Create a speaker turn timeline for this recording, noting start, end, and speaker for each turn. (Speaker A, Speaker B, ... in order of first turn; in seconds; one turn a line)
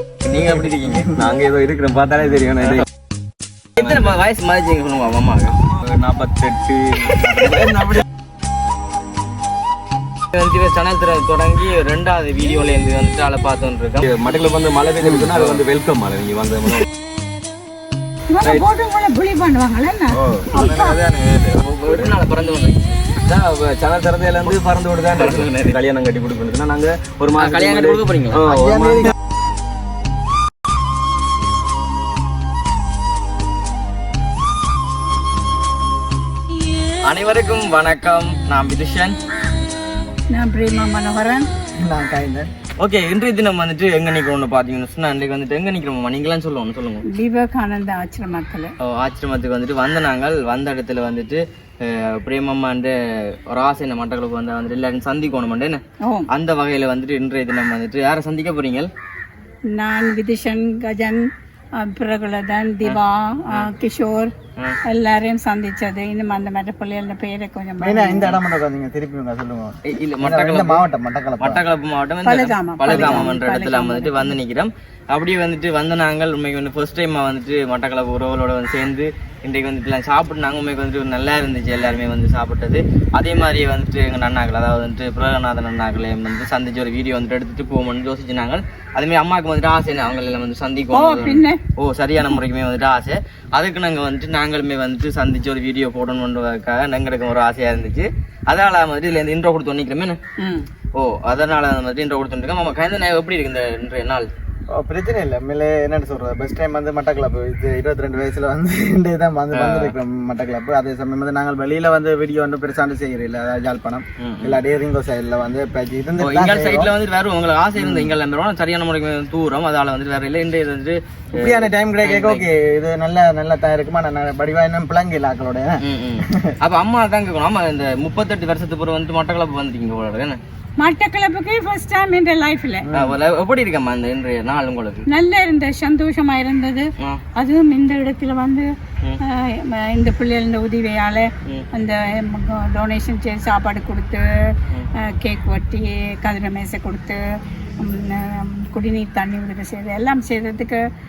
Speaker A: 0.2-1.2
Speaker B: 1.2-2.9
Speaker A: 3.8-5.6
Speaker B: 3.8-4.1
Speaker B: 5.6-8.1
Speaker A: 10.3-14.1
Speaker B: 14.0-16.9
Speaker A: 15.0-15.6
Speaker C: 18.3-21.1
Speaker B: 18.4-18.7
Speaker D: 20.4-21.6
Speaker A: 21.5-23.0
Speaker B: 21.8-22.1
Speaker B: 23.2-29.1
Speaker A: 25.1-25.8
Speaker A: 27.4-28.5
Speaker D: 28.5-29.1
Speaker A: 37.0-39.2
Speaker C: 40.3-41.5
Speaker D: 41.8-42.5
Speaker A: 42.8-47.1
Speaker C: 47.1-48.7
Speaker A: 48.8-58.9
Speaker C: 59.7-64.3
Speaker C: 64.9-68.3
Speaker D: 67.8-71.6
Speaker A: 69.8-70.8
Speaker A: 71.4-100.2
Speaker C: 72.2-74.3
Speaker C: 90.9-91.6
Speaker C: 100.4-100.7
Speaker A: 101.0-104.3
Speaker D: 104.7-116.9
Speaker A: 109.5-110.0
Speaker A: 114.2-114.6
Speaker A: 116.2-122.5
Speaker D: 117.8-118.1
Speaker D: 121.3-126.5
Speaker A: 125.8-130.4
Speaker C: 130.8-132.9
Speaker D: 132.9-133.2
Speaker A: 132.9-135.1
Speaker C: 135.1-138.7
Speaker C: 139.2-144.2
Speaker C: 145.1-147.2
Speaker C: 147.8-150.8